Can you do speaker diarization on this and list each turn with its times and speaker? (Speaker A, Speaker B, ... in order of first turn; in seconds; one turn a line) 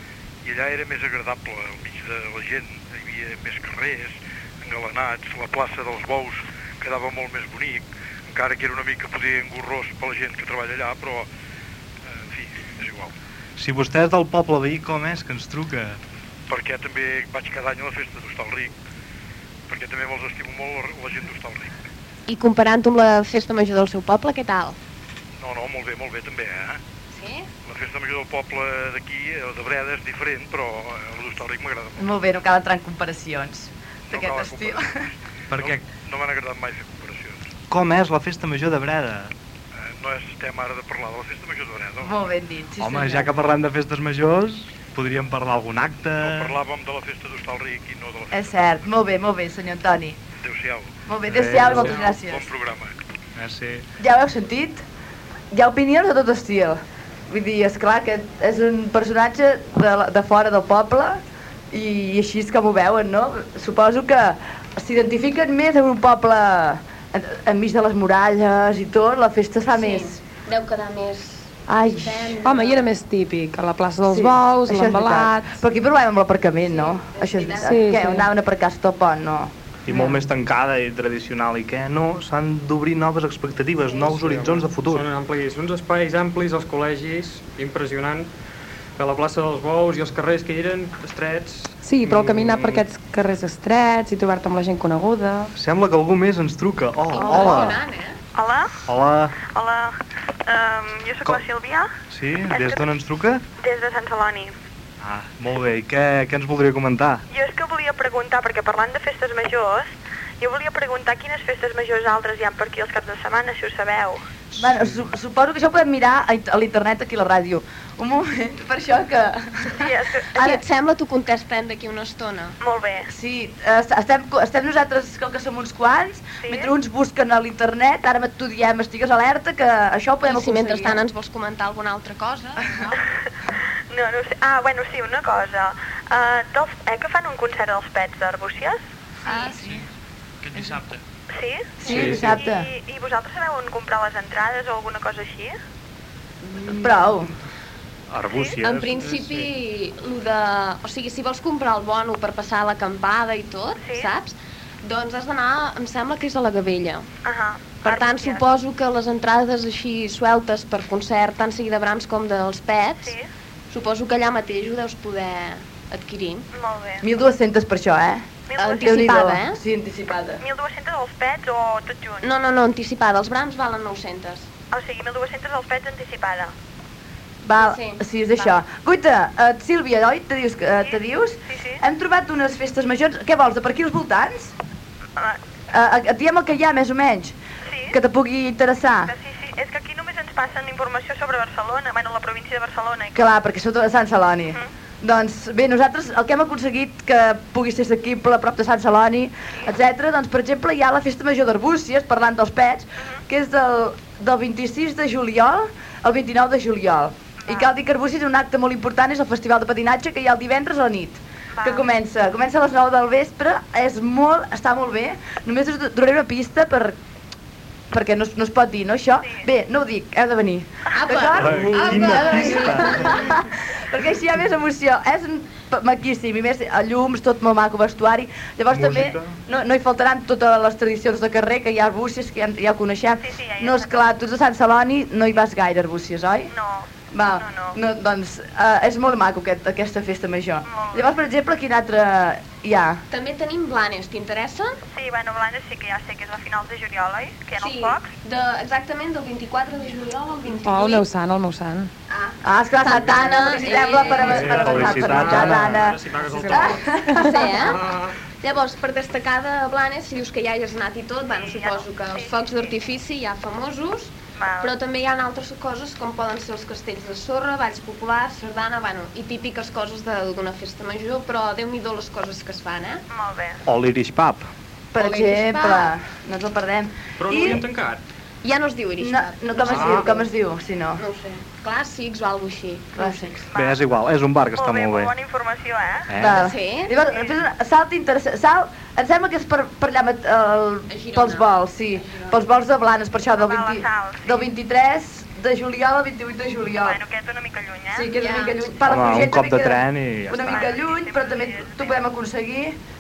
Speaker A: 0.4-11.3
Speaker A: 12.2-13.1
Speaker B: 13.6-16.0
Speaker A: 16.5-18.7
Speaker A: 19.7-21.7
Speaker C: 22.3-24.8
Speaker A: 25.4-26.8
Speaker C: 27.1-27.5
Speaker A: 27.7-32.0
Speaker D: 32.0-35.0
Speaker A: 34.1-34.9
Speaker B: 35.5-35.9
Speaker A: 35.6-37.4
Speaker B: 37.7-39.3
Speaker A: 39.9-42.1
Speaker D: 42.0-43.3
Speaker B: 42.8-46.5
Speaker A: 46.2-48.5
Speaker D: 48.3-50.2
Speaker A: 50.4-51.0
Speaker D: 51.1-52.5
Speaker B: 51.3-52.1
Speaker A: 52.1-53.0
Speaker B: 53.4-53.9
Speaker D: 54.0-54.8
Speaker D: 55.5-61.2
Speaker D: 61.7-70.2
Speaker C: 69.7-72.8
Speaker D: 71.7-72.4
Speaker E: 72.4-75.6
Speaker D: 74.1-79.5
Speaker C: 76.7-77.8
Speaker E: 77.6-78.3
Speaker B: 79.9-85.1
Speaker F: 84.1-88.3
Speaker F: 89.0-92.8
Speaker E: 91.8-95.5
Speaker B: 95.6-97.8
Speaker C: 97.1-98.2
Speaker G: 98.3-98.7
Speaker B: 98.9-99.4
Speaker G: 99.4-100.0
Speaker G: 100.5-101.9
Speaker B: 102.1-103.4
Speaker G: 102.5-102.8
Speaker G: 103.6-104.5
Speaker B: 105.0-107.2
Speaker G: 107.3-114.2
Speaker B: 114.6-115.0
Speaker D: 114.6-120.6
Speaker G: 119.8-120.3
Speaker C: 120.3-122.6
Speaker G: 122.6-123.1
Speaker D: 123.1-131.0
Speaker G: 126.4-126.7
Speaker C: 130.2-133.0
Speaker G: 133.9-138.8
Speaker C: 139.3-139.6
Speaker D: 139.3-139.6
Speaker G: 141.3-145.6
Speaker D: 141.8-142.7
Speaker F: 141.9-142.3
Speaker D: 146.7-147.3
Speaker B: 148.1-149.4
Speaker G: 148.3-148.6
Speaker C: 148.6-157.1
Speaker G: 153.8-154.1
Speaker G: 157.2-158.4
Speaker C: 157.8-163.2
Speaker G: 163.0-163.3
Speaker C: 163.7-166.5
Speaker G: 166.5-167.0
Speaker D: 167.0-168.2
Speaker G: 168.5-169.1
Speaker C: 168.6-169.6
Speaker D: 168.8-170.4
Speaker G: 170.4-172.3
Speaker C: 172.2-174.5
Speaker G: 174.7-176.5
Speaker D: 177.4-184.5
Speaker C: 177.6-178.6
Speaker G: 180.9-181.8
Speaker D: 185.7-187.3
Speaker G: 187.7-188.0
Speaker D: 187.9-189.1
Speaker G: 189.1-193.2
Speaker D: 193.2-217.0
Speaker G: 207.4-207.7
Speaker G: 211.6-211.9
Speaker D: 217.9-236.5
Speaker C: 220.9-223.3
Speaker B: 221.4-223.2
Speaker B: 228.7-229.4
Speaker G: 233.2-234.1
Speaker G: 236.5-237.8
Speaker D: 237.1-243.0
Speaker G: 240.7-241.1
Speaker C: 243.1-244.8
Speaker G: 244.9-248.1
Speaker C: 247.6-251.1
Speaker E: 250.6-251.9
Speaker C: 252.1-254.8
Speaker D: 252.4-257.3
Speaker B: 254.3-255.8
Speaker F: 254.3-256.8
Speaker E: 256.2-257.3
Speaker C: 257.2-257.8
Speaker F: 257.7-258.1
Speaker C: 258.4-273.0
Speaker G: 261.4-262.7
Speaker G: 264.4-264.7
Speaker G: 273.1-273.6
Speaker B: 273.7-274.5
Speaker D: 274.9-277.6
Speaker C: 275.0-275.9
Speaker F: 277.2-278.0
Speaker C: 278.4-280.3
Speaker D: 279.0-281.0
Speaker F: 279.7-280.1
Speaker C: 281.0-283.4
Speaker D: 283.0-283.4
Speaker G: 283.5-283.9
Speaker B: 283.6-285.1
Speaker G: 284.6-286.1
Speaker B: 286.1-286.4
Speaker D: 286.2-297.0
Speaker C: 286.2-286.9
Speaker G: 287.1-287.4
Speaker C: 290.9-292.4
Speaker G: 293.4-294.5
Speaker G: 296.8-298.1
Speaker D: 297.9-302.8
Speaker C: 298.2-298.6
Speaker B: 298.9-300.6
Speaker G: 300.4-302.0